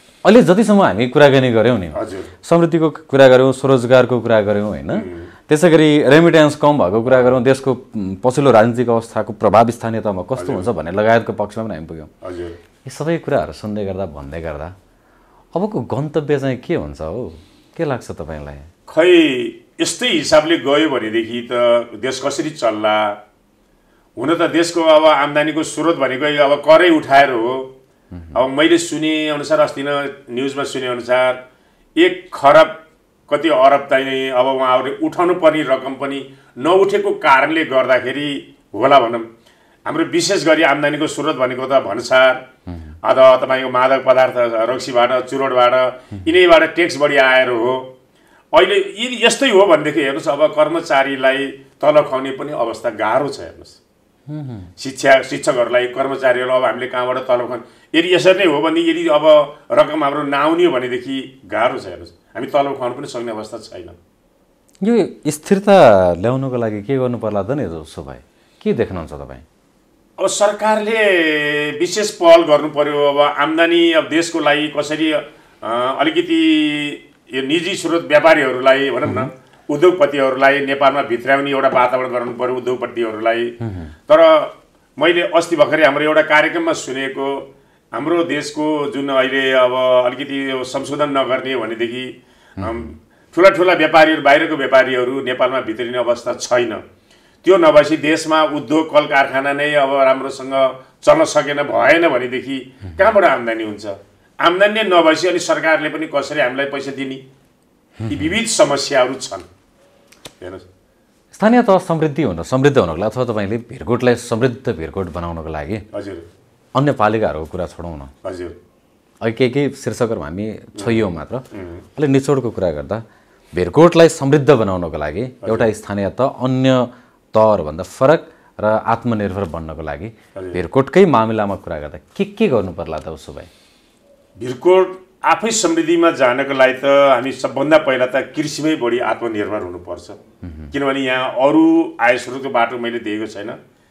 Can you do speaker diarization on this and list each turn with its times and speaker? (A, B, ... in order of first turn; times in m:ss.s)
0:00.2-0:12.1 A
0:01.9-0:02.3 B
0:04.9-0:05.3 B
0:10.4-0:10.7 B
0:12.2-0:12.6 B
0:12.8-0:14.7 A
0:15.5-0:18.7 A
0:18.9-0:23.2 B
0:24.2-0:27.7 B
0:28.3-0:31.4 B
0:32.0-0:32.8 B
0:33.3-0:39.3 B
0:39.8-0:42.4 B
0:43.0-0:47.9 B
0:48.5-0:53.8 B
0:54.3-0:54.7 A
0:54.8-1:04.0 B
1:04.8-1:09.4 A
1:10.2-1:23.6 B
1:19.0-1:19.3 A
1:23.6-1:23.9 A
1:24.1-1:36.8 B
1:32.6-1:32.8 A
1:37.4-1:47.2 B
1:48.0-1:48.3 A
1:48.1-1:49.4 B
1:51.3-1:55.8 A
1:55.9-1:56.2 B
1:56.7-1:58.1 A
1:58.2-1:58.6 B
1:59.2-2:13.5 A
2:00.8-2:01.8 B
2:05.4-2:05.7 B
2:10.3-2:10.6 B
2:14.4-2:20.2 B
2:20.4-2:20.7 A
2:20.7-2:23.6 B